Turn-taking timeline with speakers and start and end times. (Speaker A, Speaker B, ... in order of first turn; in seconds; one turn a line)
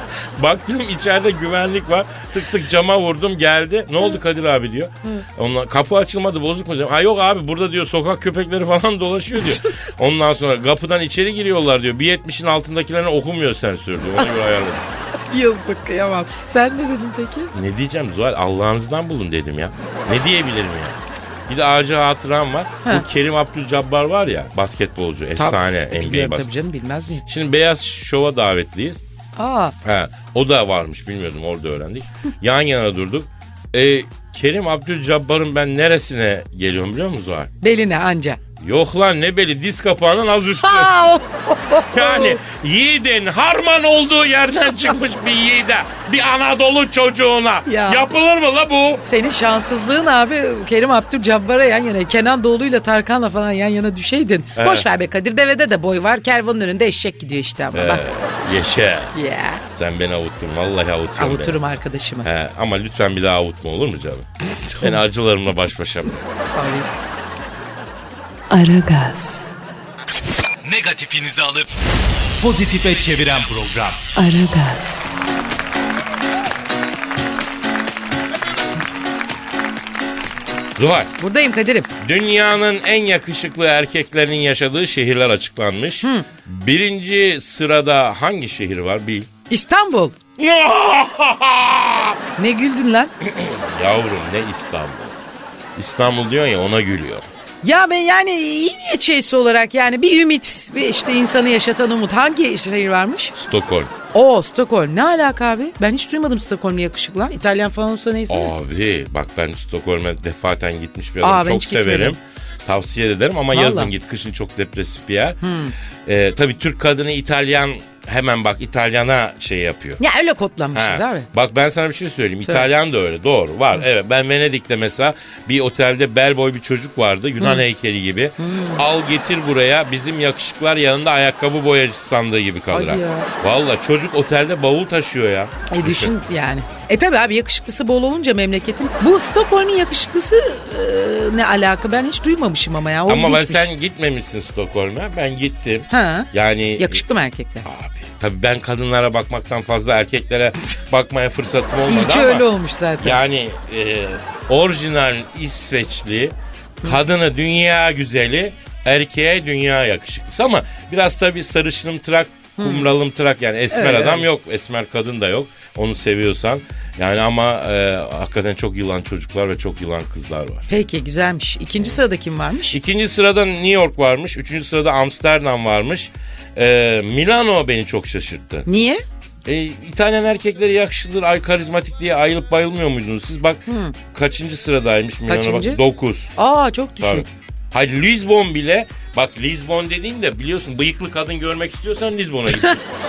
Speaker A: 0.4-14.9
Speaker B: 15.3-17.5
Speaker A: 17.5-21.0
Speaker A: 21.5-26.5
Speaker B: 25.4-27.2
Speaker A: 27.3-29.0
Speaker B: 29.4-29.7
Speaker A: 29.8-37.5
Speaker B: 37.6-38.4
Speaker A: 38.6-41.0
Speaker B: 40.6-42.4
Speaker A: 41.9-49.0
Speaker B: 47.7-48.1
Speaker B: 49.0-58.0
Speaker A: 54.6-54.9
Speaker A: 57.7-59.1
Speaker B: 59.1-59.6
Speaker A: 59.7-61.6
Speaker B: 61.2-62.3
Speaker A: 62.2-64.3
Speaker B: 64.6-65.0
Speaker A: 64.8-66.2
Speaker B: 66.5-66.9
Speaker C: 68.5-69.5
Speaker D: 70.6-71.7
Speaker D: 72.4-74.1
Speaker C: 74.2-75.1
Speaker A: 80.8-81.1
Speaker B: 81.2-81.9
Speaker A: 82.0-89.3
Speaker B: 86.0-86.3
Speaker B: 89.5-90.2
Speaker A: 90.4-92.2
Speaker B: 92.4-93.1
Speaker A: 93.2-95.2
Speaker A: 95.8-97.2
Speaker B: 97.6-103.3
Speaker A: 103.4-103.9
Speaker B: 104.1-108.5
Speaker A: 108.3-115.4
Speaker B: 111.2-112.2
Speaker B: 113.5-113.9
Speaker B: 115.4-115.7
Speaker A: 116.1-120.0
Speaker B: 120.0-121.3
Speaker A: 120.7-136.1
Speaker B: 128.4-128.8
Speaker B: 132.7-133.3
Speaker B: 135.7-143.7
Speaker A: 143.1-147.0
Speaker B: 145.9-147.7
Speaker A: 147.7-152.5
Speaker B: 151.9-153.2
Speaker A: 153.0-170.7
Speaker B: 162.6-162.9
Speaker B: 163.7-164.3
Speaker B: 170.7-172.8
Speaker A: 172.7-178.7
Speaker B: 178.7-179.0
Speaker A: 179.4-186.3
Speaker B: 183.7-183.9
Speaker B: 185.3-185.8
Speaker B: 186.4-187.3
Speaker A: 187.0-192.8